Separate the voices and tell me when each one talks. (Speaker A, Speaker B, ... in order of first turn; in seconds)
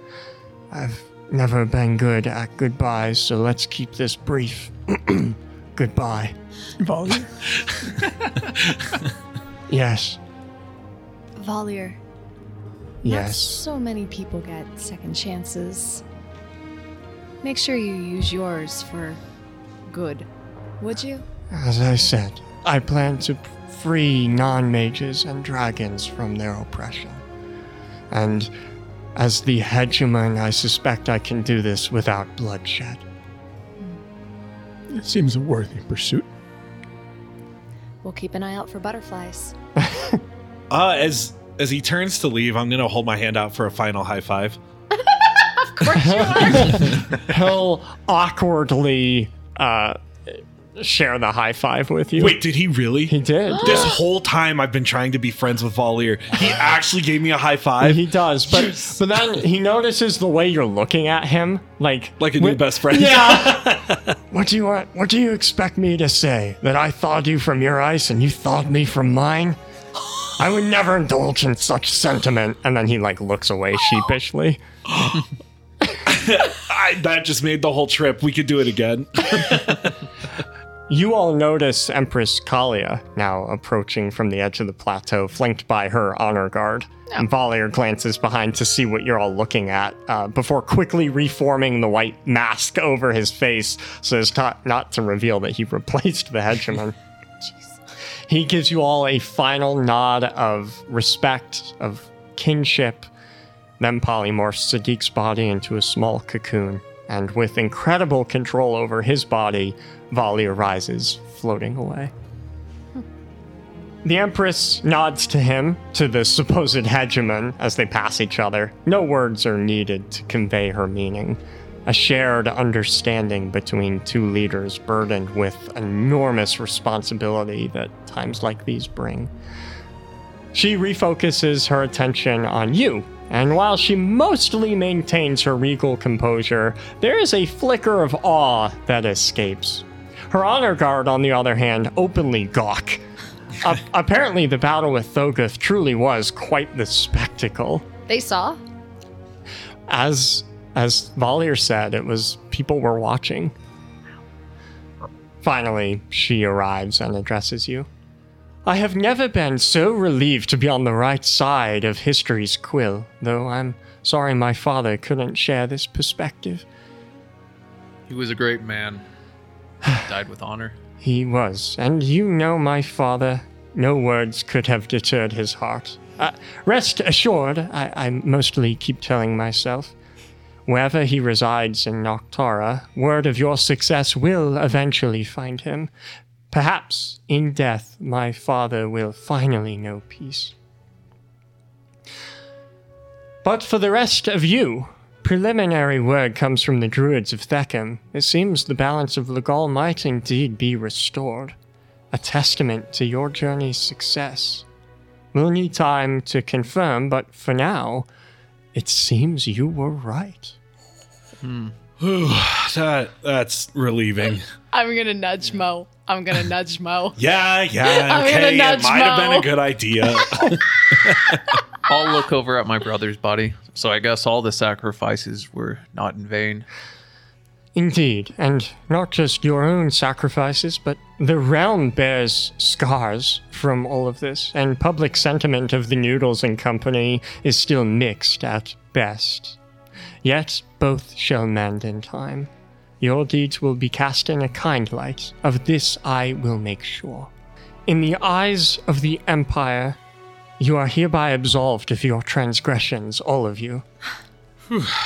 Speaker A: 0.7-6.3, 9.7-10.2, 13.0-13.6, 21.5-27.2, 28.1-28.5, 29.2-33.0, 39.8-40.2, 46.0-52.4, 53.1-53.9, 57.8-69.6, 70.3-74.6, 80.9-97.0, 98.3-103.1, 103.8-112.1, 114.0-129.3, 130.5-143.0, 143.6-147.9, 149.9-153.6, 155.4-157.9, 158.7-166.7, 171.0-179.9, 180.7-185.9, 186.5-190.5, 193.4-201.6, 202.1-204.7, 205.3-208.1, 208.8-210.6, 227.8-239.6, 240.2-242.5, 243.0-247.3, 247.9-250.0, 250.6-253.8
Speaker B: 6.8-7.5, 34.9-36.3
Speaker C: 7.6-9.1, 40.7-44.6, 52.2-58.0, 62.2-64.0, 74.9-75.2, 76.0-79.9, 212.0-214.5, 217.2-221.4
Speaker D: 11.4-12.0, 13.1-16.0, 17.4-19.2, 19.9-20.3, 20.8-21.3, 38.0-39.5, 45.0-47.0, 53.6-53.9, 148.1-148.6, 214.7-217.2, 217.8-219.5
Speaker E: 168.1-169.0, 169.9-170.8, 211.4-211.7, 221.9-226.7